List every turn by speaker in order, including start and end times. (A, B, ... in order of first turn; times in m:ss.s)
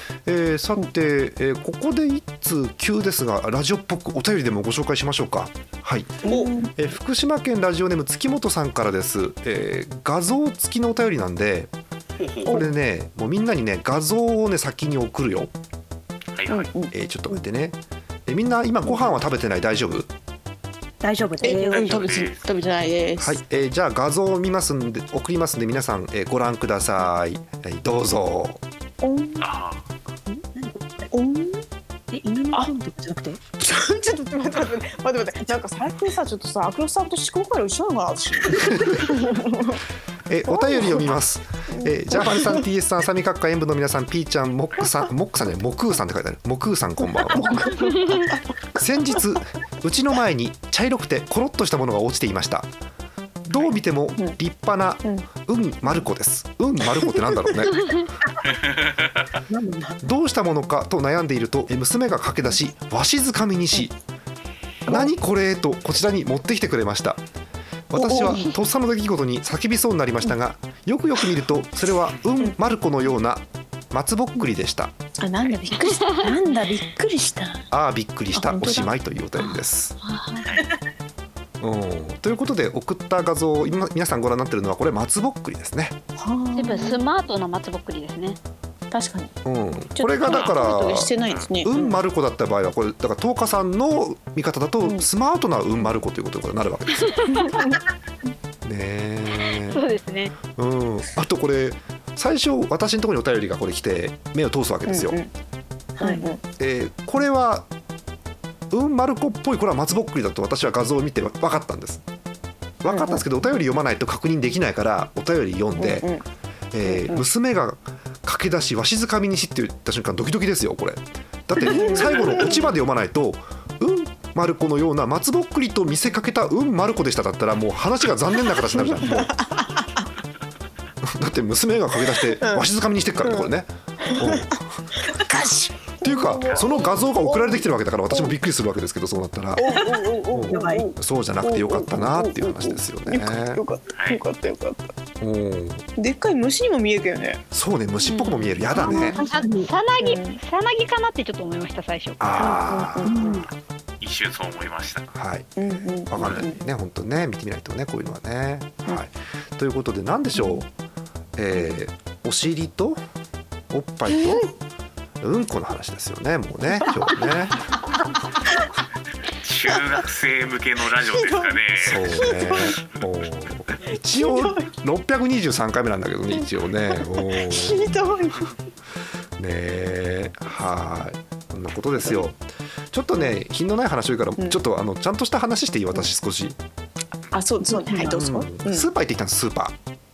0:00.2-0:11.7 A
0:06.2-0:06.7 B
0:12.2-0:12.6 C
0:12.5-0:15.5 A
0:16.4-0:16.7 C
0:16.5-0:16.9 B
0:16.9-0:20.1 A
0:21.0-0:22.2 D
0:21.4-0:23.4 B
0:21.5-0:22.4 C
0:23.2-0:28.6 A
0:29.0-0:29.5 B
0:29.4-0:29.8 C
0:30.3-0:31.1 D
0:31.1-0:31.6 B
0:32.1-0:33.4 D
0:33.6-0:39.8 B
0:38.8-0:39.1 A
0:40.3-0:47.7 A
0:40.5-0:41.1 B
0:41.7-0:42.6 B
0:47.2-0:49.2 B
0:48.0-0:48.2 E
0:48.8-0:52.7 A
0:53.5-0:58.0 A
0:57.0-0:57.5 B
0:58.4-0:59.4 C
0:59.5-1:00.0 D
1:00.0-1:03.9 A
1:04.9-1:07.2 A
1:07.9-1:14.9 A
1:08.0-1:08.5 B
1:15.2-1:17.7 B
1:17.7-1:20.0 A
1:18.3-1:20.6 B
1:21.6-1:26.0 A
1:26.2-1:27.0 B
1:26.5-1:28.4 E
1:28.9-1:29.3 B
1:29.4-1:31.1 A
1:30.0-1:32.0 B
1:30.3-1:30.6 C
1:31.2-1:31.5 C
1:31.6-1:37.4 A
1:37.3-1:37.8 B
1:38.6-1:39.8 A
1:39.5-1:40.3 E
1:40.5-1:45.2 A
1:44.9-1:45.3 B
1:46.0-1:46.3 D
1:46.0-1:46.4 B
1:46.6-1:47.7 A
1:48.7-1:52.0 A
1:52.8-1:56.1 A
1:52.9-1:53.2 B
1:55.8-1:56.2 B
1:56.7-2:09.3 A
1:56.8-1:57.2 B
2:01.6-2:02.7 B
2:08.7-2:10.1 B
2:11.0-2:14.6 A
2:12.1-2:12.7 B
2:13.2-2:13.5 B
2:14.0-2:18.3 B
2:16.0-2:19.7 A
2:19.6-2:24.9 B
2:20.3-2:23.6 A
2:20.5-2:20.9 D
2:23.9-2:24.2 C
2:25.2-2:25.9 A
2:26.0-2:27.4 B
2:27.5-2:29.2 A
2:28.0-2:32.4 E
2:28.8-2:29.7 D
2:28.9-2:29.2 B
2:30.0-2:30.4 B
2:32.2-2:33.2 A
2:32.4-2:33.4 B
2:33.0-2:33.5 D
2:34.0-2:35.1 C
2:35.1-2:40.7 A
2:35.6-2:36.6 B
2:40.4-2:40.6 B
2:41.4-2:43.0 A
2:43.7-2:44.5 A
2:44.1-2:44.5 B
2:45.2-2:47.7 A
2:46.8-2:47.2 B
2:49.4-2:52.3 C
2:51.1-2:52.8 B
2:51.8-2:58.0 A
2:54.1-2:54.7 B
2:56.4-2:58.5 B
2:59.4-3:02.4 A
3:02.9-3:06.6 A
3:07.3-3:08.9 B
3:07.7-3:08.2 D
3:08.1-3:09.8 A